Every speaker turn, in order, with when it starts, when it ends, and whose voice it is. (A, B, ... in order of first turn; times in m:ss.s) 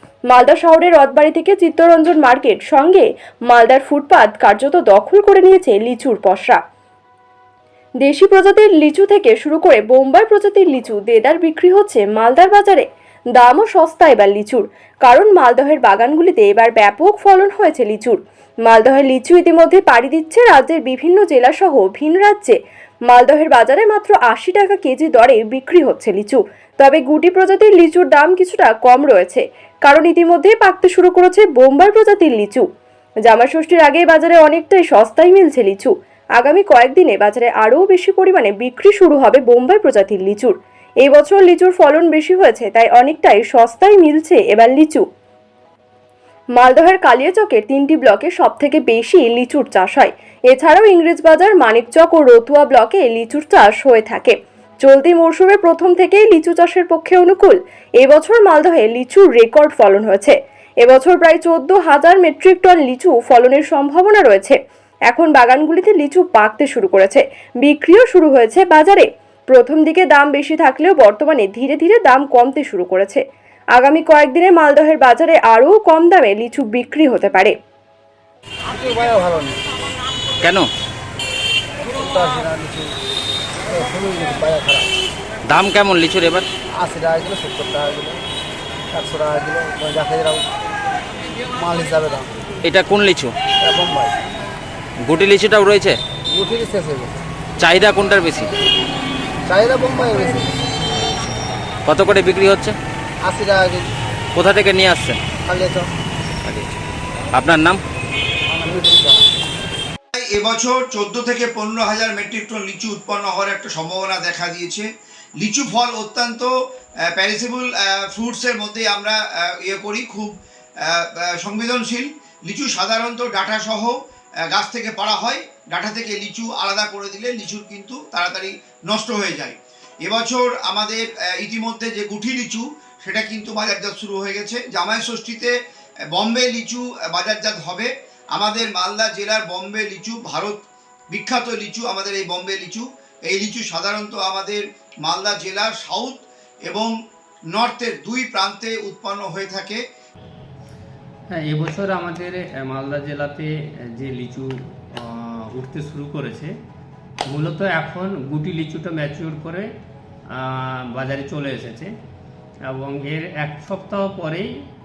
0:00.3-0:06.6 A
0:08.0-0:12.8 A
0:13.4-0:22.6 A
0:23.1-0:32.6 A
0:33.3-0:45.0 A
0:46.6-1:04.6 A
1:05.1-1:13.2 A
1:13.7-1:17.5 A
1:18.7-1:19.7 B
1:20.4-1:20.7 C
1:21.9-1:22.9 B
1:23.7-1:24.9 B
1:25.5-1:26.4 C
1:26.8-1:28.2 B
1:28.9-1:30.5 B
1:31.5-1:32.3 B
1:32.6-1:33.3 C
1:33.6-1:34.2 B
1:35.0-1:36.0 C
1:36.3-1:37.2 B
1:37.6-1:38.5 C
1:39.4-1:40.6 B
1:41.8-1:42.8 C
1:43.2-1:43.9 B
1:44.3-1:45.2 C
1:45.4-1:45.9 B
1:46.4-1:46.8 C
1:47.3-1:47.8 C
1:48.5-1:49.2 B
1:50.1-1:54.9 D
1:55.4-1:56.5 D
1:57.1-2:04.0 D
2:04.5-2:15.5 D
2:16.1-2:26.9 D
2:27.5-2:29.8 D
2:31.4-2:36.5 E
2:37.3-2:39.7 E
2:40.3-2:41.9 E
2:42.6-2:44.5 E